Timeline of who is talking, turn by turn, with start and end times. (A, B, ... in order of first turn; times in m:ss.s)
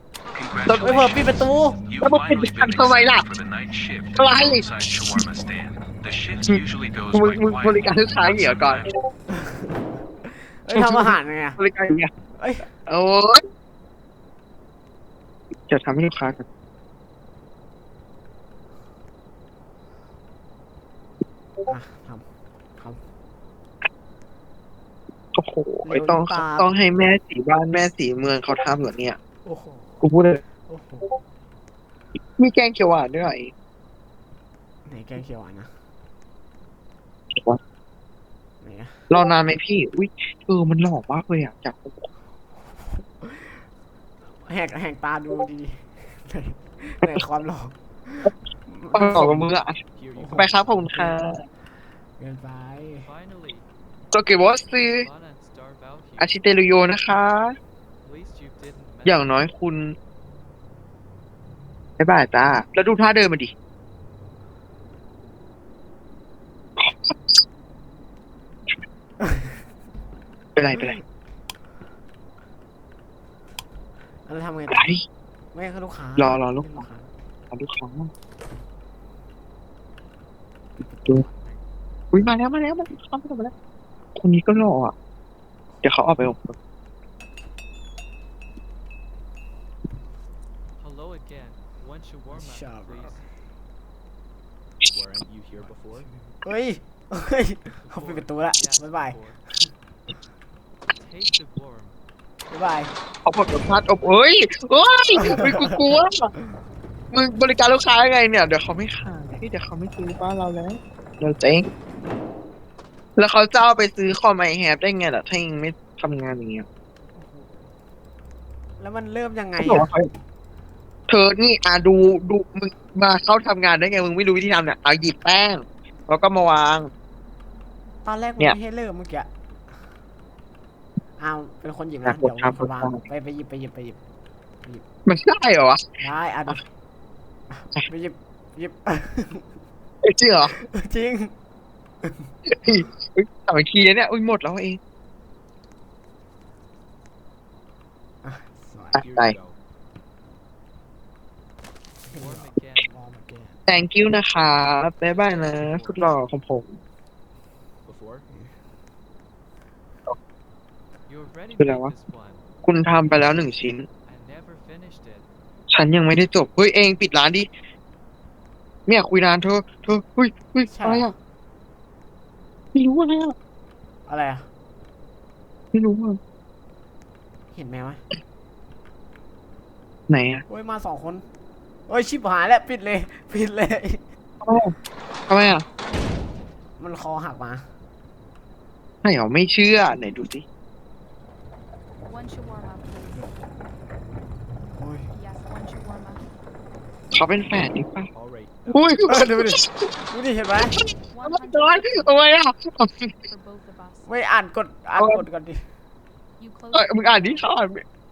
0:00.4-0:08.8 A
0:00.6-0:01.0 B
0:00.8-0:01.8 C
0:02.0-0:03.3 B
0:04.2-0:05.3 B
0:06.4-0:08.9 B
0:09.5-0:09.7 C
0:10.5-0:11.6 C
0:10.7-0:12.1 B
0:12.4-0:12.7 C
0:12.9-0:13.4 B
0:15.7-0:16.4 B
0:21.7-0:22.3 C
0:25.3-0:29.2 B
0:25.8-0:26.7 C
0:29.4-0:30.1 C
0:30.0-0:30.4 B
0:30.6-0:31.2 C
0:32.4-0:33.5 B
0:34.9-0:35.7 C
0:37.3-0:37.6 B
0:38.6-0:39.0 C
0:39.1-0:42.0 B
0:42.8-0:43.6 C
0:44.3-0:49.5 C
0:48.9-0:49.8 B
0:50.0-0:50.8 D
0:50.2-0:51.2 C
0:50.3-0:51.4 B
0:52.2-0:53.1 C
0:53.0-0:53.7 D
0:54.1-0:55.1 B
0:54.9-0:56.4 D
0:56.2-0:57.6 B
0:58.0-0:59.4 D
0:59.0-1:00.0 B
1:02.0-1:03.5 B
1:06.8-1:07.2 B
1:09.2-1:09.6 C
1:10.6-1:11.0 B
1:10.7-1:11.0 C
1:14.3-1:14.9 C
1:14.7-1:15.0 B
1:15.5-1:17.1 C
1:16.2-1:16.8 B
1:17.5-1:18.1 B
1:20.8-1:21.6 C
1:22.1-1:23.5 B
1:24.2-1:24.9 B
1:25.7-1:26.0 C
1:25.8-1:26.6 B
1:30.8-1:33.3 D
1:32.3-1:33.2 C
1:34.8-1:36.1 D
1:35.2-1:36.0 A
1:36.4-1:39.7 C
1:37.8-1:39.4 D
1:40.9-1:42.0 D
1:42.5-1:42.9 C
1:43.3-1:46.3 B
1:45.2-1:45.8 C
1:47.1-1:51.7 B
1:53.2-1:56.7 B
1:57.2-1:57.6 C
1:58.8-1:59.9 C
1:59.6-2:00.1 B
2:01.1-2:06.9 B
2:08.0-2:09.3 C
2:11.2-2:14.0 C
2:12.0-2:13.0 B
2:15.1-2:15.8 B
2:16.0-2:16.7 C
2:17.5-2:19.5 C
2:20.0-2:20.5 B
2:20.5-2:21.3 C
2:22.0-2:22.3 C
2:22.5-2:24.8 B
2:28.2-2:29.0 C
2:29.0-2:29.4 B
2:29.0-2:29.6 D
2:32.1-2:33.6 C
2:32.1-2:32.9 D
2:33.7-2:36.8 B
2:35.1-2:36.2 D
2:37.8-2:38.3 D
2:41.1-2:42.4 D
2:41.6-2:41.9 B
2:42.6-2:43.9 B
2:44.0-2:45.3 D
2:45.7-2:47.5 B
2:48.9-2:51.1 B
2:50.7-2:51.1 C
2:52.7-2:53.4 B
2:54.1-2:54.5 C
2:55.7-2:56.2 B
2:57.5-2:58.0 C
3:00.1-3:00.4 B
3:00.5-3:01.2 C
3:01.9-3:04.1 C
3:04.4-3:04.7 B
3:05.3-3:05.6 B
3:06.8-3:07.7 C
3:09.0-3:10.4 B
3:12.1-3:13.3 E
3:14.8-3:15.1 C
3:15.1-3:16.3 E
3:17.1-3:18.1 B
3:18.2-3:18.7 A
3:18.6-3:19.1 D
3:18.7-3:19.8 B
3:19.1-3:20.8 C
3:20.8-3:23.2 B
3:21.1-3:22.3 E
3:23.2-3:24.2 E
3:24.0-3:25.7 C
3:25.0-3:25.2 B
3:26.4-3:27.6 E
3:26.7-3:27.8 B